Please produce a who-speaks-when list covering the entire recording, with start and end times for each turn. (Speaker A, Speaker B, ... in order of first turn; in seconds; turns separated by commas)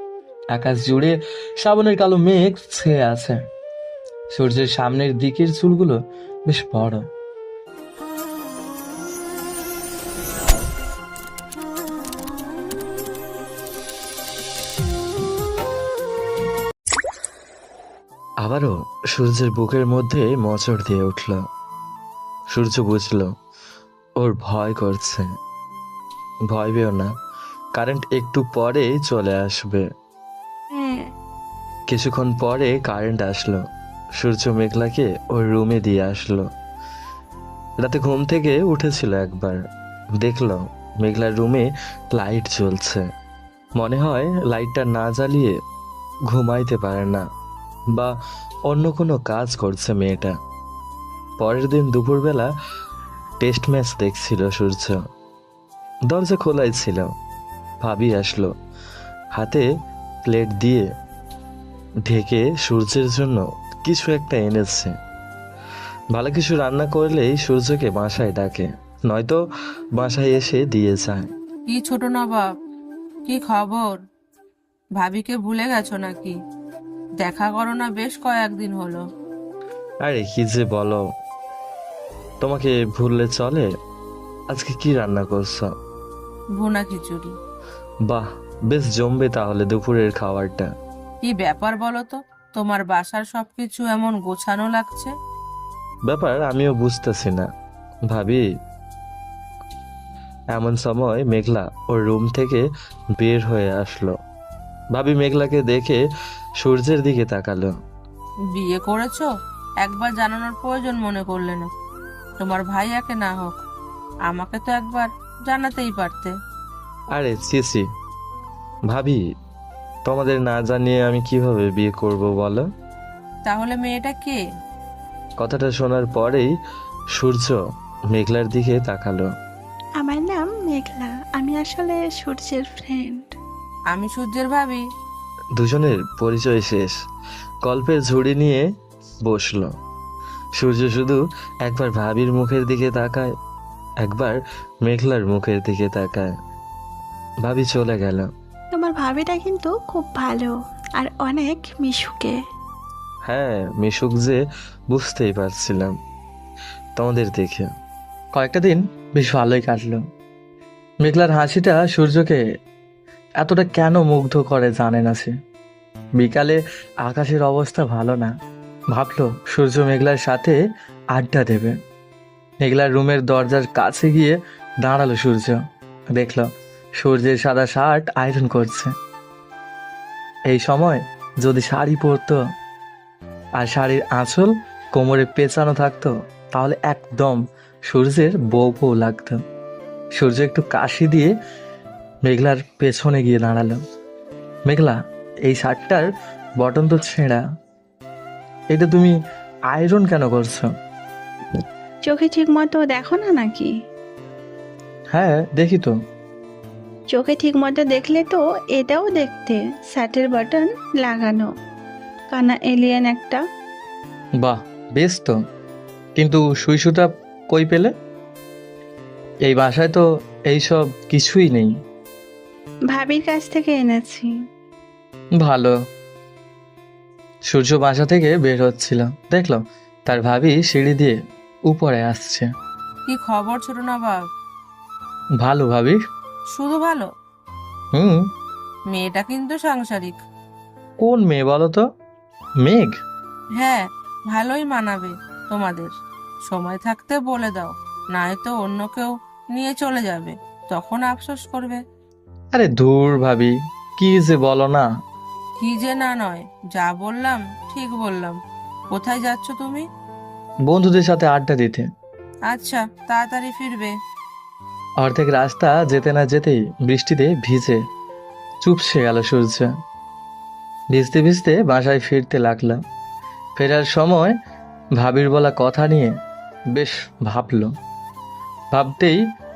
Speaker A: 0.5-3.4, Speaker A: 4.3-7.0, Speaker A: 18.4-21.4, Speaker A: 22.5-23.3, Speaker A: 24.2-25.3, Speaker A: 26.5-27.1, Speaker A: 27.7-29.9, Speaker B: 30.7-31.1, Speaker A: 31.9-33.6, Speaker A: 34.2-36.5, Speaker A: 37.8-39.6, Speaker A: 40.2-43.0, Speaker A: 43.8-45.5, Speaker A: 46.3-47.2, Speaker A: 48.7-50.3, Speaker A: 51.4-52.5, Speaker A: 53.4-55.0, Speaker A: 56.1-57.1, Speaker A: 57.8-58.5, Speaker A: 59.3-59.6, Speaker A: 60.2-60.9, Speaker A: 62.0-64.9, Speaker A: 66.1-69.4, Speaker A: 70.0-71.3, Speaker C: 71.7-72.5, Speaker C: 73.2-74.0, Speaker C: 75.0-76.4, Speaker C: 77.2-79.0, Speaker A: 80.0-81.0, Speaker A: 82.4-83.7, Speaker A: 84.5-85.7, Speaker C: 86.6-87.3, Speaker A: 88.0-90.7, Speaker C: 91.2-95.1, Speaker A: 96.1-97.5, Speaker A: 98.1-98.4, Speaker A: 100.5-102.6, Speaker A: 103.2-104.1, Speaker A: 104.9-106.0, Speaker A: 106.6-107.7, Speaker C: 108.5-109.3, Speaker C: 109.8-111.7, Speaker C: 112.4-113.6, Speaker C: 114.3-116.3, Speaker A: 117.1-117.9, Speaker A: 118.9-119.2, Speaker A: 120.0-122.7, Speaker C: 123.4-124.4, Speaker A: 125.4-126.5, Speaker A: 127.1-127.6, Speaker A: 128.1-129.3, Speaker B: 130.0-133.3, Speaker C: 133.9-134.8, Speaker A: 135.6-136.9, Speaker A: 137.6-138.7, Speaker A: 139.2-139.7, Speaker A: 140.6-143.3, Speaker A: 144.0-146.3, Speaker A: 147.4-148.3, Speaker B: 148.7-152.3, Speaker A: 153.2-155.9, Speaker A: 157.0-157.7, Speaker A: 158.3-160.0, Speaker A: 161.0-162.4, Speaker A: 163.4-165.3, Speaker A: 166.2-168.3, Speaker A: 168.9-170.6, Speaker A: 171.1-171.7, Speaker A: 172.6-175.6, Speaker A: 176.1-178.9, Speaker A: 180.5-182.4, Speaker A: 183.6-189.4, Speaker A: 190.2-191.3, Speaker A: 192.2-193.8, Speaker A: 194.7-196.1, Speaker A: 196.6-197.4, Speaker A: 198.7-199.1, Speaker A: 199.7-200.7, Speaker B: 202.1-203.7, Speaker A: 205.1-205.9, Speaker B: 207.1-211.5, Speaker B: 212.3-213.4, Speaker A: 214.4-215.3, Speaker A: 216.2-217.9, Speaker A: 219.4-221.7, Speaker B: 222.9-224.3, Speaker A: 225.4-225.7, Speaker A: 227.5-232.5, Speaker C: 233.1-234.2, Speaker A: 235.4-236.0, Speaker C: 236.5-237.1, Speaker A: 237.9-238.2, Speaker C: 238.9-240.2, Speaker A: 241.0-241.8, Speaker A: 242.6-242.9, Speaker C: 243.6-245.9, Speaker C: 246.4-251.8, Speaker A: 252.5-254.9, Speaker C: 255.6-258.4, Speaker C: 258.9-259.9, Speaker A: 260.7-261.9, Speaker C: 262.5-263.9, Speaker A: 265.0-267.8, Speaker A: 268.6-269.7, Speaker A: 270.9-272.8, Speaker A: 273.6-274.3, Speaker A: 275.0-276.1, Speaker A: 276.7-277.7, Speaker A: 278.7-279.2